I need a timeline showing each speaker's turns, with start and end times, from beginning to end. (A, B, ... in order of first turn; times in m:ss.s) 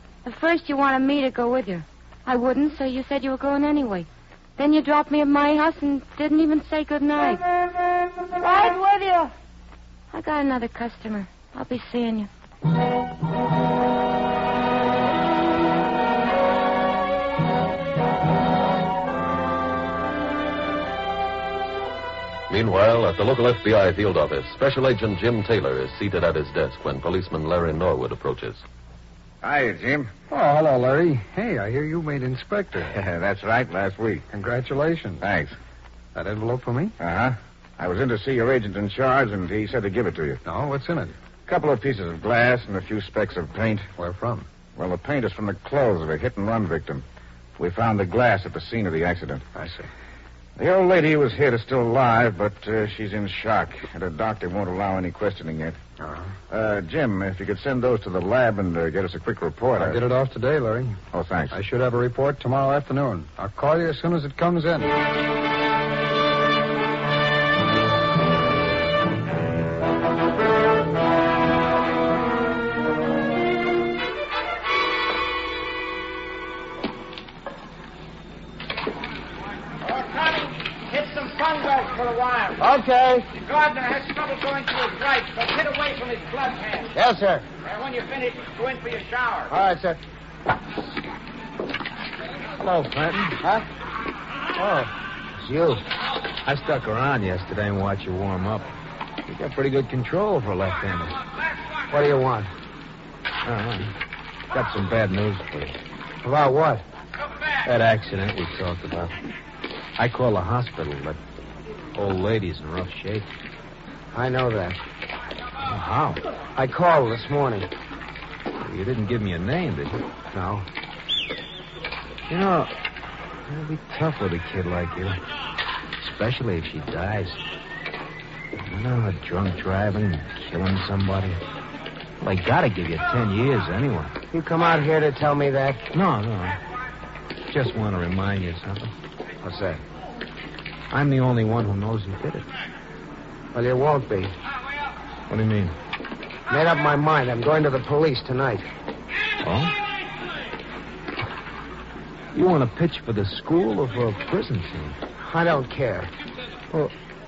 0:00.2-0:07.4 A
0:08.4-0:09.3 A
0:10.1-0:12.3 A
0:22.5-0:28.6 B
0:29.4-0:30.1 C
0:30.3-0:32.9 D
0:32.9-0:34.2 C
0:34.3-0:35.2 D
0:35.2-0:35.5 C
0:36.1-0:37.0 D
0:37.0-0:40.4 C
0:40.4-0:41.1 D
0:41.5-0:43.9 C
0:44.0-0:44.5 D
0:44.8-0:47.0 C
0:47.6-0:49.4 C
0:49.5-0:49.9 D
0:50.6-0:55.8 C
0:56.0-0:56.3 D
0:56.5-1:00.0 C
0:59.8-1:01.0 D
1:01.1-1:01.5 C
1:01.5-1:04.9 D
1:19.8-1:22.6 E
1:22.6-1:23.3 F
1:23.3-1:26.9 E
1:26.9-1:27.4 F
1:27.6-1:29.5 E
1:29.5-1:30.0 F
1:32.6-1:33.4 G
1:34.6-1:35.8 F
1:36.4-1:38.7 G
1:39.2-1:41.1 G
1:41.9-1:42.5 F
1:43.4-1:44.0 G
1:44.5-1:45.8 G
1:46.2-1:46.8 F
1:47.6-1:49.2 G
1:50.0-1:51.2 G
1:51.9-1:53.3 G
1:54.1-1:54.8 F
1:55.6-1:56.2 G
1:56.5-1:57.7 F
1:58.6-2:00.0 G
2:00.3-2:00.6 F
2:02.3-2:02.7 G
2:03.5-2:05.2 G
2:06.0-2:07.4 G
2:08.6-2:11.4 G
2:12.2-2:14.2 G
2:14.3-2:15.8 F
2:15.9-2:16.6 G
2:17.5-2:18.9 G
2:19.4-2:19.8 F
2:20.9-2:22.5 G
2:23.5-2:24.3 F
2:25.3-2:25.7 G
2:26.5-2:28.7 F
2:29.4-2:29.7 G
2:32.3-2:35.0 G
2:35.2-2:36.1 F